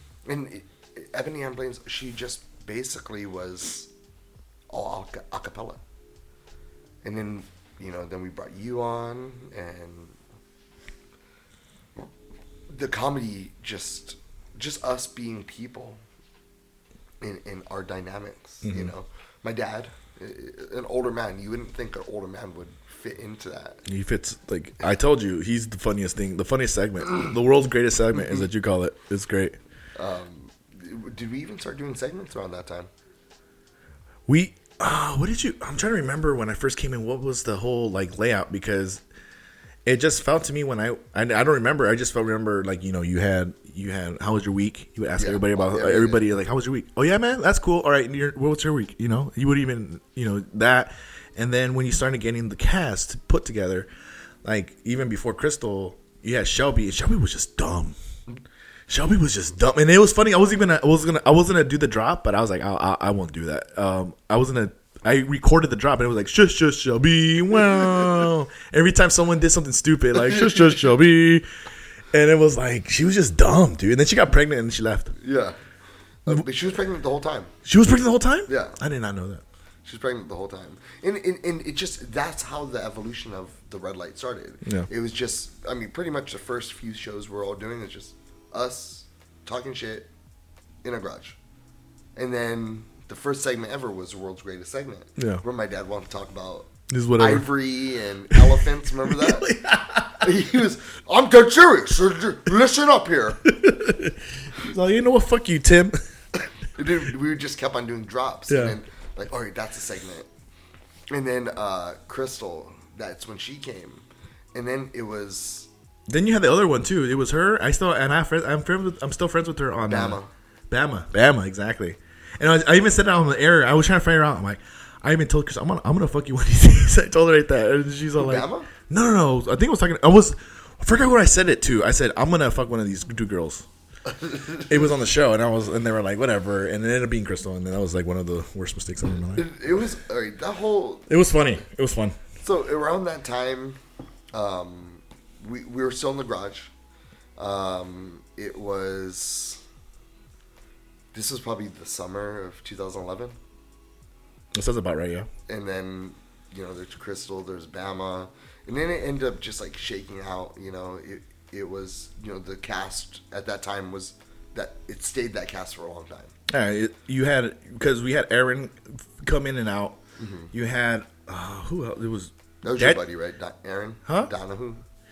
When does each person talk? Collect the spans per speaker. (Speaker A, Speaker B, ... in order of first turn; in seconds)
Speaker A: 0.2-3.9, 4.7-5.8, 7.0-10.2, 12.7-16.0, 17.2-23.8, 29.9-32.9, 45.2-46.2, 70.2-70.8, 75.2-75.6, 76.2-77.5, 78.5-78.8, 79.8-90.1, 90.8-91.4, 92.2-99.5, 100.1-103.5, 106.7-110.3, 111.1-115.7, 119.9-120.3, 128.2-128.7, 134.1-134.9, 139.3-141.1, 142.4-143.8, 144.3-146.7, 147.4-149.6, 151.1-153.3, 155.5-166.3, 170.2-170.5, 172.6-174.8
Speaker B: 18.6-18.9, 23.9-29.6, 34.3-39.0, 39.8-53.9, 54.4-58.0, 58.9-71.5, 72.1-75.1, 77.6-79.4, 95.2-95.4, 96.9-97.5, 99.1-100.3, 103.5-106.0, 108.5-108.8, 116.1-120.2, 120.7-133.7, 134.7-139.5, 141.1-142.2, 154.5-155.3, 166.5-170.0, 170.5-173.0